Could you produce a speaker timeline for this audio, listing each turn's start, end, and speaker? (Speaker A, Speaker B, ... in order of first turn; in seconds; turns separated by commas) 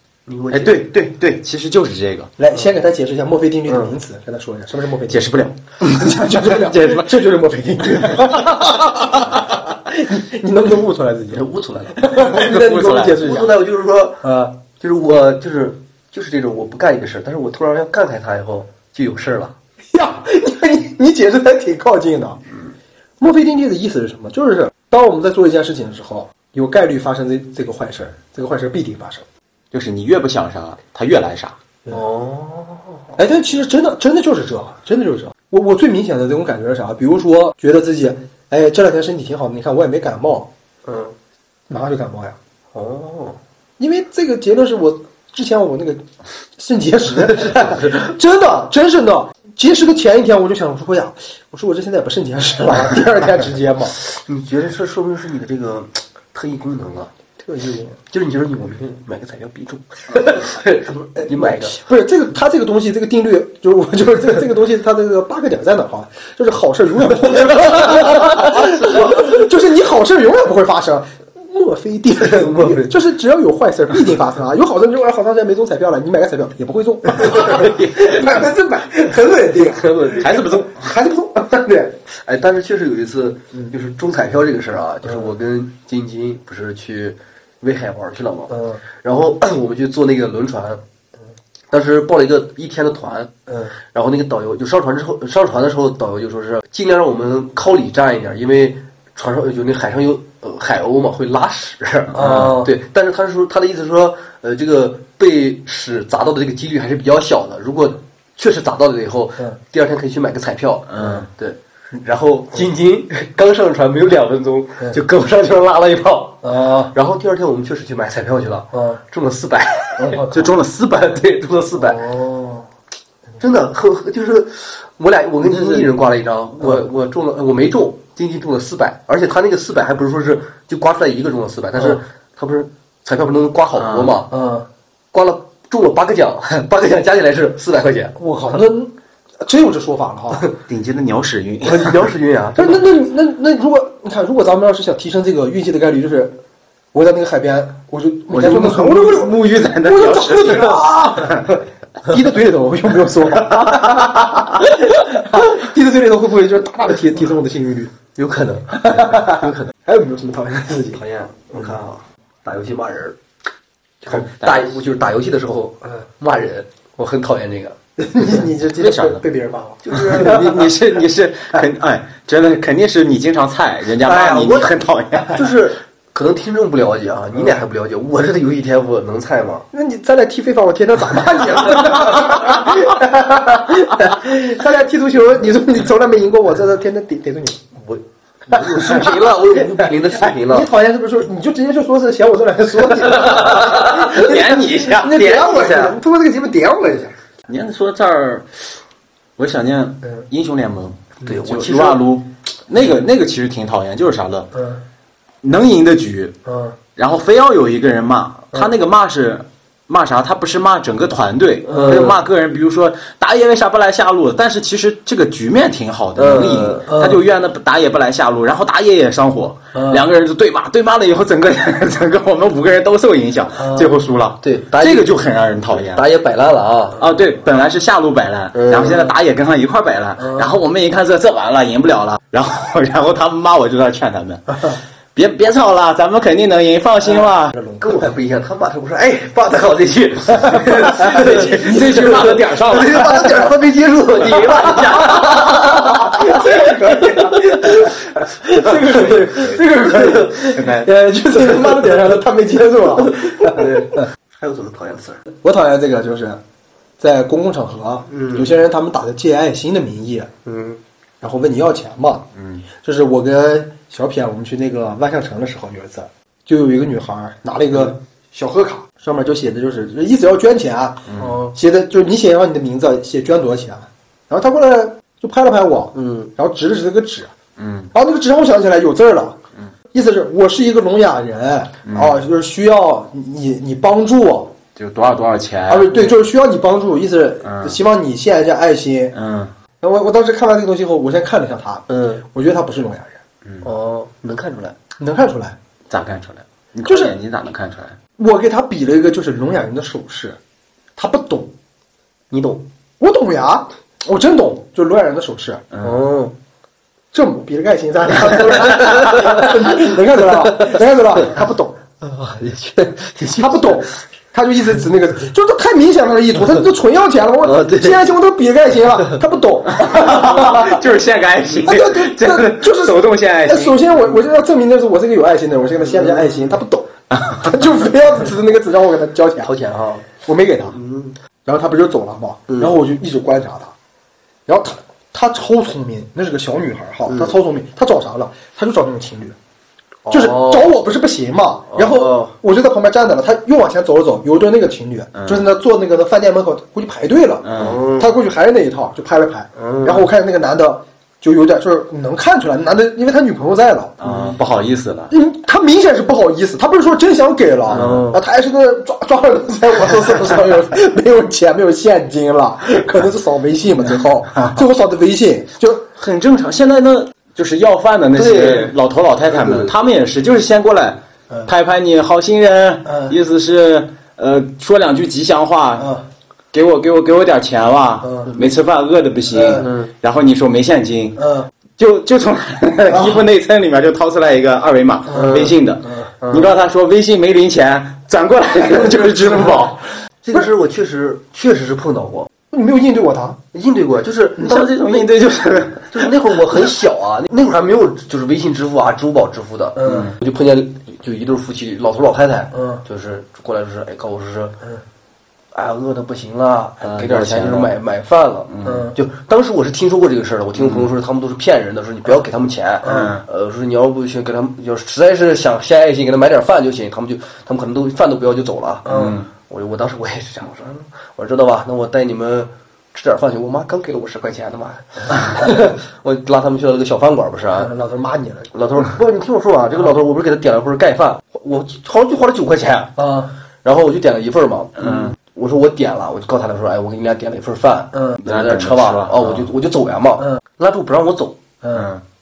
Speaker A: 0.3-0.9, Speaker B: 0.5-2.3, Speaker C: 2.4-13.7, Speaker B: 5.1-7.2, Speaker A: 11.3-12.2, Speaker B: 12.2-13.3, Speaker A: 13.2-14.2, Speaker C: 14.2-14.6, Speaker A: 14.8-19.6, Speaker C: 19.9-22.4, Speaker C: 23.2-29.3, Speaker B: 29.7-31.6, Speaker A: 31.9-33.0, Speaker C: 33.2-40.5, Speaker A: 40.9-41.1, Speaker C: 41.7-42.4, Speaker A: 42.7-43.4, Speaker C: 43.8-46.0, Speaker C: 46.6-54.0, Speaker A: 47.4-47.9, Speaker A: 54.0-57.1, Speaker C: 57.4-58.0, Speaker A: 58.1-61.8, Speaker C: 61.2-82.0, Speaker A: 67.5-69.2, Speaker A: 72.2-72.9, Speaker A: 79.7-80.4, Speaker B: 80.2-81.0, Speaker A: 82.2-90.8, Speaker C: 88.5-88.8, Speaker A: 91.7-120.3, Speaker C: 102.2-102.7, Speaker B: 102.2-102.6, Speaker B: 110.9-111.3, Speaker C: 116.4-116.9, Speaker C: 118.7-119.0, Speaker C: 120.0-120.5, Speaker B: 120.3-121.1, Speaker A: 120.9-122.1, Speaker C: 121.8-122.7, Speaker A: 123.4-134.3, Speaker B: 133.8-134.2, Speaker C: 134.3-134.7, Speaker A: 135.1-138.2, Speaker C: 138.2-140.4, Speaker B: 140.7-142.1, Speaker A: 141.6-142.9, Speaker C: 142.6-146.4, Speaker C: 146.9-157.9, Speaker B: 148.3-151.5, Speaker B: 153.5-154.4, Speaker A: 158.2-159.7, Speaker C: 158.7-161.0, Speaker A: 160.9-163.2, Speaker A: 164.1-167.8, Speaker B: 164.2-164.8, Speaker C: 168.0-170.6, Speaker B: 168.8-169.2, Speaker A: 169.9-170.6, Speaker B: 169.9-175.5, Speaker A: 174.0-174.7, Speaker A: 175.3-179.7, Speaker C: 179.7-187.7, Speaker A: 187.8-190.7, Speaker C: 188.5-197.1, Speaker B: 193.2-195.9, Speaker B: 197.5-198.6, Speaker B: 199.4-204.5, Speaker A: 201.2-202.0, Speaker C: 204.6-204.8, Speaker B: 205.4-206.4, Speaker C: 206.5-206.8, Speaker B: 207.0-226.1, Speaker A: 211.7-212.2, Speaker C: 211.7-212.1, Speaker A: 216.2-216.9, Speaker C: 216.9-217.2, Speaker C: 219.8-220.0, Speaker C: 223.6-223.9, Speaker A: 224.4-225.1, Speaker A: 225.8-227.0, Speaker B: 227.0-237.6, Speaker A: 228.6-229.1, Speaker C: 237.5-237.9, Speaker A: 237.8-246.3, Speaker B: 240.8-243.3, Speaker C: 241.2-242.2, Speaker B: 244.2-245.7, Speaker C: 245.2-254.0, Speaker B: 249.0-250.9, Speaker A: 253.0-255.2, Speaker C: 255.4-256.4, Speaker C: 257.0-260.3, Speaker A: 258.1-258.5, Speaker A: 260.4-260.8, Speaker C: 261.2-277.3, Speaker B: 262.4-262.7, Speaker B: 271.1-271.3, Speaker A: 271.2-271.5, Speaker A: 275.9-276.3, Speaker B: 277.6-277.9, Speaker C: 277.9-279.4, Speaker C: 279.9-284.6, Speaker B: 281.9-282.2, Speaker B: 284.8-285.9, Speaker C: 285.7-289.1, Speaker B: 287.4-287.8, Speaker B: 289.1-289.5, Speaker C: 289.8-293.2, Speaker A: 291.9-292.2, Speaker A: 293.6-294.8, Speaker C: 295.0-295.6, Speaker B: 295.9-298.0, Speaker C: 296.9-297.1, Speaker C: 298.2-300.4, Speaker C: 301.0-301.5, Speaker A: 302.3-302.7, Speaker C: 303.0-305.6, Speaker B: 305.7-306.0, Speaker A: 305.8-306.4, Speaker C: 307.1-311.8, Speaker A: 309.0-309.4, Speaker A: 310.5-310.8, Speaker A: 312.0-313.9, Speaker C: 313.4-320.8, Speaker A: 317.4-318.0, Speaker B: 319.7-323.9, Speaker C: 321.5-329.5, Speaker A: 329.4-330.1, Speaker C: 330.2-330.8, Speaker A: 330.7-331.2, Speaker C: 331.4-333.7, Speaker A: 332.5-332.7, Speaker C: 334.5-339.4, Speaker A: 337.1-337.3, Speaker A: 340.1-340.7, Speaker C: 340.1-354.0, Speaker A: 341.7-342.3, Speaker B: 345.1-345.5, Speaker B: 347.4-347.8, Speaker A: 347.6-348.1, Speaker A: 349.6-350.1, Speaker B: 354.0-355.1, Speaker A: 354.0-354.3, Speaker C: 355.1-365.9, Speaker B: 357.7-358.0, Speaker A: 357.7-358.2, Speaker B: 366.0-375.9, Speaker A: 368.1-368.7, Speaker A: 369.4-369.7, Speaker C: 372.9-373.1, Speaker C: 375.8-376.1, Speaker B: 376.5-381.3, Speaker C: 379.3-379.7, Speaker A: 379.6-379.9, Speaker C: 381.2-381.5, Speaker B: 381.8-389.9, Speaker C: 382.9-383.2, Speaker A: 385.1-385.6, Speaker C: 385.1-386.1, Speaker A: 386.2-386.5, Speaker C: 388.8-389.7, Speaker A: 390.2-392.3, Speaker C: 392.5-393.4, Speaker A: 393.5-395.1, Speaker B: 394.4-396.1, Speaker A: 395.9-404.6, Speaker C: 399.8-400.1, Speaker C: 402.5-402.8, Speaker A: 405.5-427.7, Speaker B: 406.8-407.7, Speaker B: 408.5-408.9, Speaker C: 408.6-408.9, Speaker B: 410.6-410.9, Speaker C: 412.8-413.1, Speaker B: 412.8-413.2, Speaker C: 418.9-419.2, Speaker B: 418.9-419.3, Speaker C: 427.5-428.5, Speaker A: 428.5-433.1, Speaker C: 433.0-433.3, Speaker A: 433.6-441.4, Speaker B: 434.8-435.1, Speaker B: 438.2-439.5, Speaker C: 441.6-441.9, Speaker B: 441.7-442.0